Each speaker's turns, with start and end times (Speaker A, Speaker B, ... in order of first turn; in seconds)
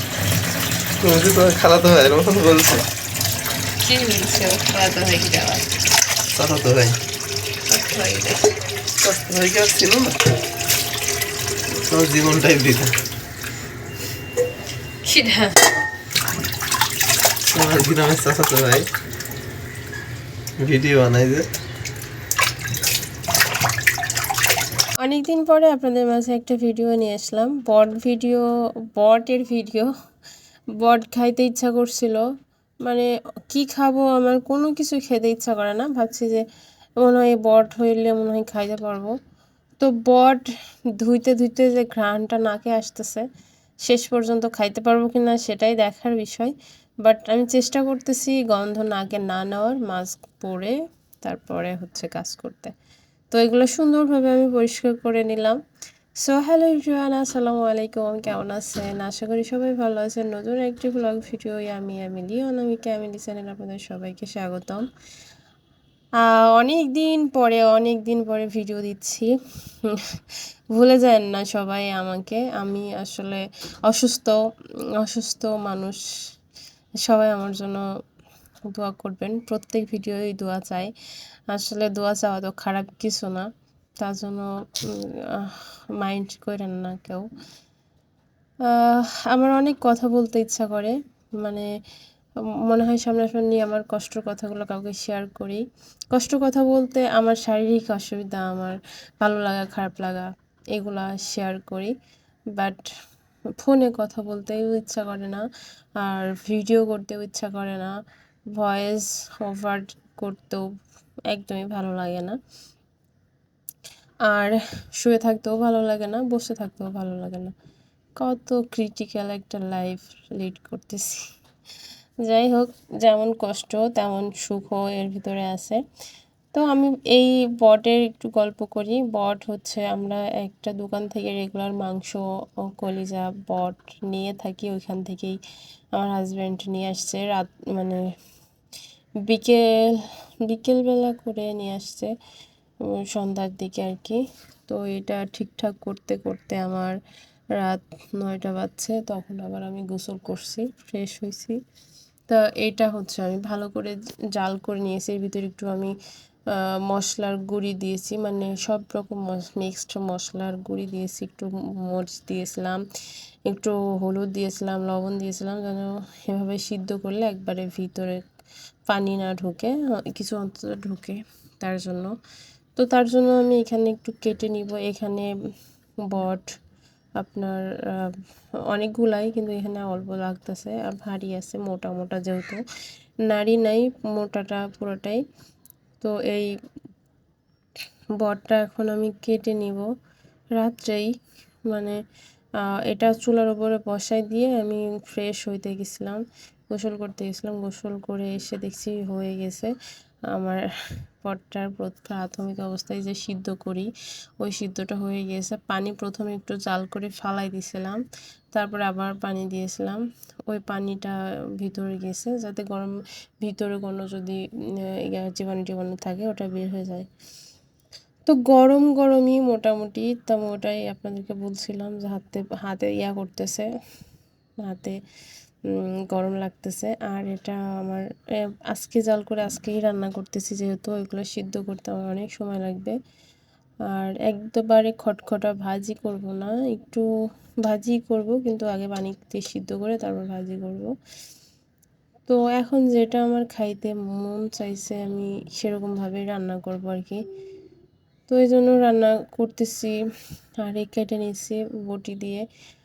Speaker A: 1.0-2.8, 6.3-7.0, 9.0-10.2, 11.8-12.9, 17.5-18.9, 20.6-21.4
Speaker B: 3.9-5.6, 7.7-8.4
Speaker C: 4.0-5.5, 8.0-8.2, 15.1-15.5, 25.0-29.9, 30.8-32.2, 32.8-36.4, 37.0-39.1, 39.8-43.2, 43.8-52.7, 53.3-55.6, 56.2-64.8, 66.2-69.3, 69.8-70.2, 70.7-74.4, 75.0-76.0, 77.0-77.8, 78.7-80.9, 81.5-83.5, 84.0-87.2, 88.7-91.7, 92.6-101.9, 102.5-102.9, 103.6-105.4, 106.0-107.9, 108.5-110.7, 111.3-112.4, 114.3-117.5, 118.2-121.2, 122.2-125.8, 126.5-135.4, 135.9-138.0, 139.3-142.1, 142.9-147.0, 147.6-151.6, 152.3-155.9, 156.5-162.8, 163.5-168.2, 168.9-172.1, 172.8-175.3, 176.1-176.5, 177.2-178.2, 178.7-182.6, 183.3-185.2, 186.0-186.5, 188.2-189.9, 190.5-191.1, 191.7-192.0, 192.8-196.2, 196.7-199.7, 200.3-200.6, 201.2-203.9, 204.4-208.0, 208.5-214.4, 214.9-217.1, 218.3-223.7, 224.6-225.0, 225.7-228.0, 228.7-233.0, 233.9-237.1, 237.6-240.9, 242.3-247.2, 248.3-249.9, 250.6-252.4